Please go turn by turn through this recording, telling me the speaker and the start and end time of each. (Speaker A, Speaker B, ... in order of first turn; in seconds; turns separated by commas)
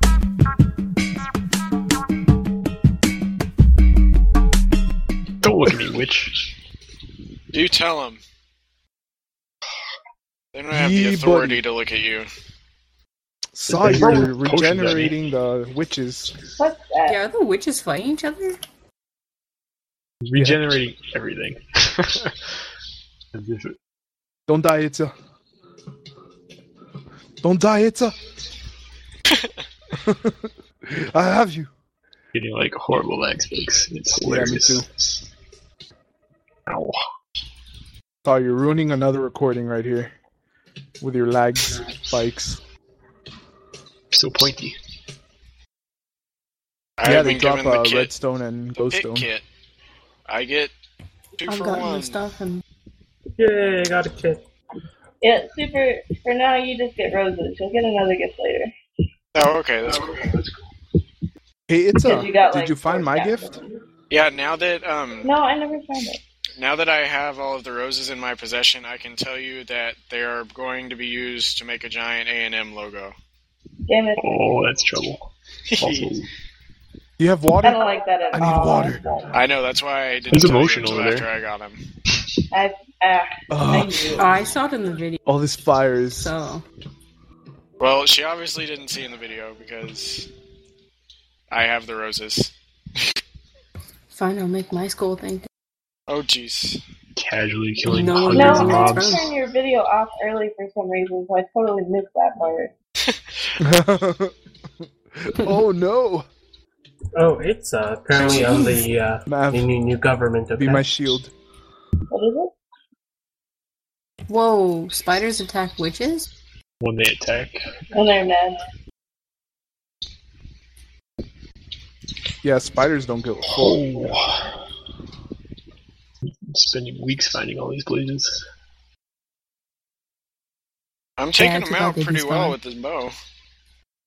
Speaker A: 5.4-6.4, Speaker B: 7.5-8.2, Speaker B: 10.5-12.3, Speaker C: 10.7-11.6, Speaker C: 13.5-16.4, Speaker A: 13.7-15.2, Speaker D: 16.6-17.2, Speaker E: 17.1-18.6, Speaker A: 20.2-22.6, Speaker C: 20.4-20.6, Speaker A: 23.3-23.8, Speaker C: 24.5-25.1, Speaker C: 27.4-28.2, Speaker C: 30.0-31.7, Speaker A: 32.3-34.9, Speaker C: 34.2-34.9, Speaker A: 36.7-37.0, Speaker C: 38.2-40.1, Speaker C: 41.0-42.6, Speaker A: 44.1-44.8, Speaker B: 47.0-48.1, Speaker C: 47.0-49.3, Speaker B: 48.8-49.4, Speaker B: 50.3-50.7, Speaker B: 51.4-52.2, Speaker E: 51.5-52.6, Speaker F: 53.4-54.4, Speaker D: 55.2-58.7, Speaker B: 59.3-60.3, Speaker C: 61.7-63.5, Speaker D: 62.0-63.6, Speaker B: 64.1-65.3, Speaker D: 65.2-66.2, Speaker B: 66.6-73.1, Speaker D: 73.9-74.5, Speaker A: 74.2-76.3, Speaker B: 75.7-76.1, Speaker C: 77.2-77.8, Speaker D: 77.6-79.3, Speaker C: 78.3-79.0, Speaker B: 79.3-81.8, Speaker A: 80.3-81.3, Speaker D: 82.5-84.1, Speaker C: 83.5-84.2, Speaker E: 84.2-85.2, Speaker C: 85.2-86.3, Speaker E: 86.1-86.7, Speaker B: 87.8-90.3, Speaker B: 91.5-92.5, Speaker E: 94.1-95.5, Speaker B: 96.1-96.8, Speaker A: 97.2-99.1, Speaker E: 97.8-99.3, Speaker D: 98.3-102.7, Speaker C: 103.6-104.3, Speaker C: 105.1-106.3, Speaker F: 107.2-110.9, Speaker B: 108.2-108.6, Speaker E: 108.2-108.7, Speaker C: 109.3-109.7, Speaker C: 110.6-111.3, Speaker D: 112.1-112.5, Speaker E: 114.3-116.3, Speaker A: 116.8-117.6, Speaker D: 117.9-118.6, Speaker C: 122.4-123.8, Speaker A: 123.5-124.5, Speaker A: 126.2-128.4, Speaker B: 131.2-133.2, Speaker E: 131.4-132.6